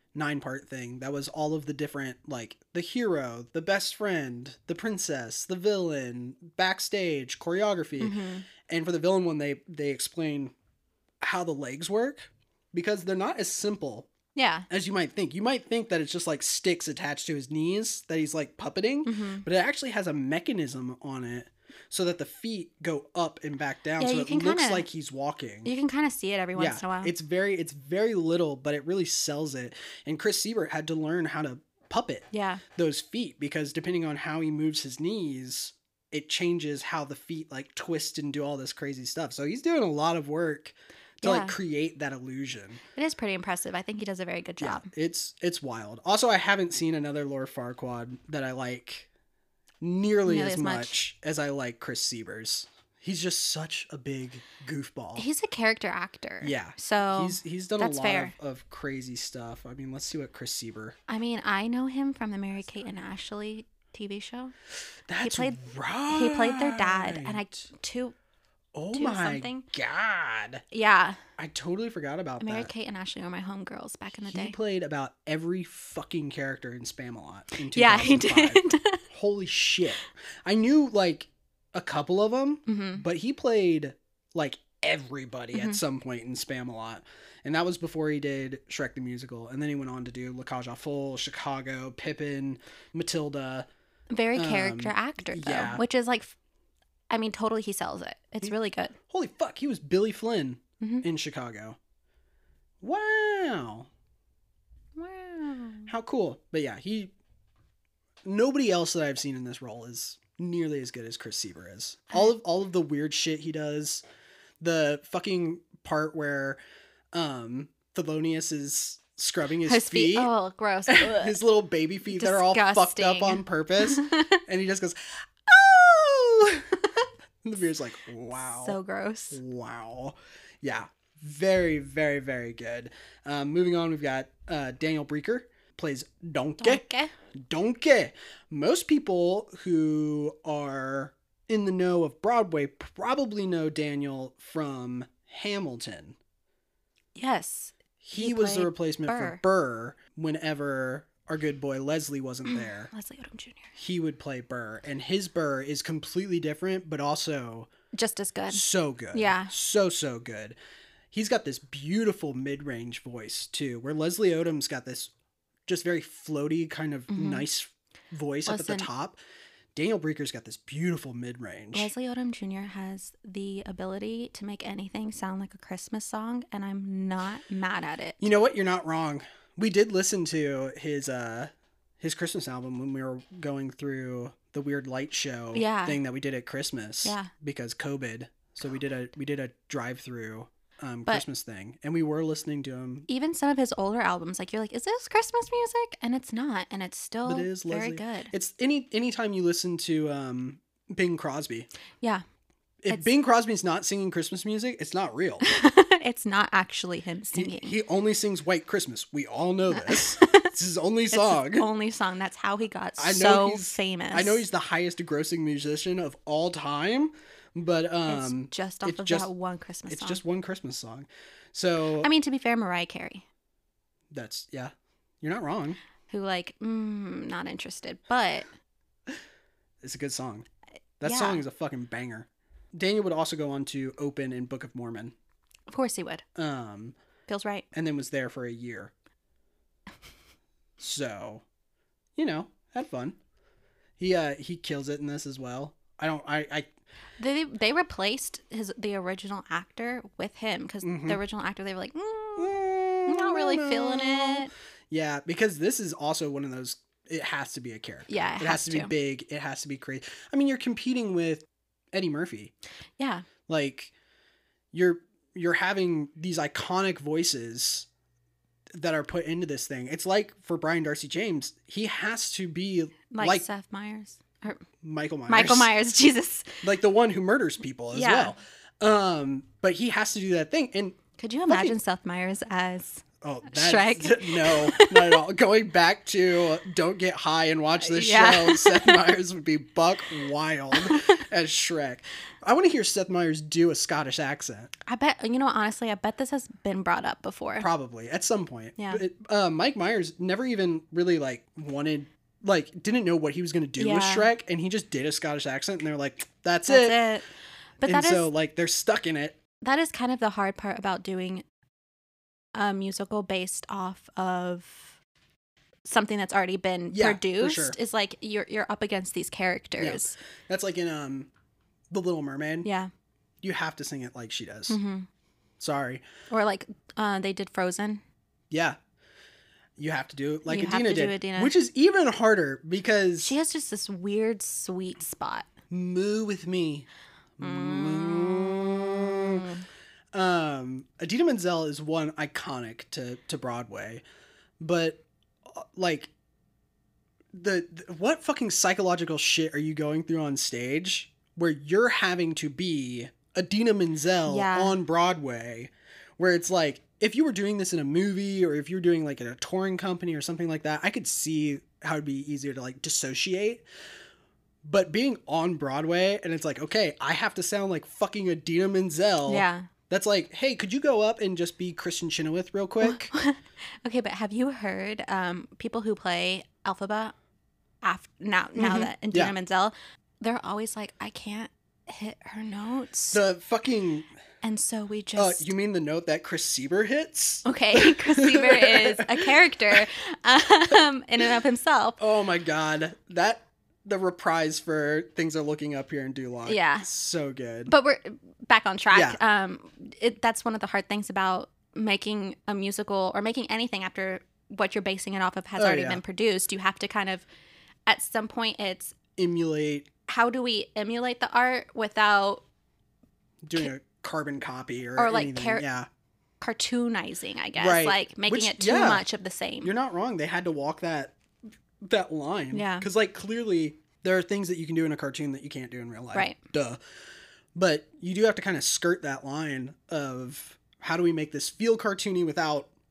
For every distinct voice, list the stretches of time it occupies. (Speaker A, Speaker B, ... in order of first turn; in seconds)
Speaker A: 0.1-10.5, 11.2-14.1, 14.7-25.7, 26.6-42.8, 44.6-49.1, 49.8-55.2, 56.4-61.0, 65.1-67.6, 68.7-70.6, 71.4-72.7, 74.3-93.7, 94.3-95.8, 99.1-101.8, 102.8-103.9, 105.9-107.1, 108.2-114.0, 114.6-116.6, 117.1-120.3, 120.9-126.8, 127.4-128.8, 129.3-136.8, 137.3-146.2, 148.0-152.9, 153.8-157.7, 158.5-160.6, 161.1-165.1, 165.7-169.2, 169.7-171.9, 178.2-193.1, 197.2-201.7, 202.8-205.4, 207.3-211.7, 213.0-219.3, 219.9-222.1, 224.1-225.8, 229.8-230.5, 231.0-235.1, 236.3-236.9, 237.7-238.9, 240.8-241.4, 242.2-243.2, 244.0-246.7, 250.8-251.2, 252.4-262.5, 263.5-263.9, 264.7-267.9, 268.7-273.4, 274.8-275.7, 276.6-281.8, 283.2-294.7, 297.6-307.0, 307.8-309.4, 316.9-317.8, 319.8-321.3, 321.9-322.7, 323.4-324.8, 325.6-326.0, 328.5-328.8, 329.8-333.3, 335.7-336.9, 337.4-339.5, 340.1-344.0, 344.6-346.1, 347.3-363.6, 364.6-373.1, 378.6-379.3, 383.1-384.1, 385.1-389.8, 392.0-397.7, 398.9-399.2, 405.6-406.0, 409.2-409.9, 413.4-415.9, 417.6-419.0, 419.6-421.1, 421.8-426.8, 427.5-432.7
Speaker B: 8.0-8.4, 14.3-14.7, 19.1-19.4, 24.0-24.9, 25.6-27.1, 32.3-32.6, 41.2-41.5, 42.9-44.9, 50.2-51.0, 55.1-58.3, 61.1-64.5, 65.2-68.1, 68.9-69.7, 70.7-71.2, 72.4-74.5, 77.7-79.0, 82.7-83.0, 85.5-85.8, 94.1-96.3, 97.1-98.9, 105.0-105.9, 119.6-121.3, 122.1-124.4, 128.3-129.4, 136.6-137.1, 147.2-149.4, 152.4-153.7, 157.9-159.5, 167.1-167.4, 168.4-168.9, 171.7-178.2, 185.5-186.0, 187.0-187.3, 193.1-198.3, 205.4-207.7, 209.7-210.5, 211.1-214.4, 218.1-220.2, 222.0-223.2, 226.1-228.5, 231.0-231.4, 235.7-236.2, 237.3-237.6, 247.2-254.5, 258.1-258.9, 263.0-263.2, 273.1-274.6, 275.3-276.6, 277.9-278.3, 281.2-285.2, 287.8-289.1, 290.7-291.2, 294.9-297.7, 303.8-304.3, 306.7-307.2, 307.8-308.3, 309.6-311.4, 312.5-314.9, 315.8-320.2, 322.6-322.9, 324.7-325.1, 326.3-328.0, 330.5-331.5, 333.2-335.5, 337.4-339.6, 354.3-354.8, 369.2-369.7, 372.8-377.1, 377.8-383.2, 384.4-385.5, 387.4-392.0, 396.4-396.9, 397.7-407.2, 407.9-408.9, 410.1-412.4, 415.0-415.6, 416.4-419.7, 422.5-422.9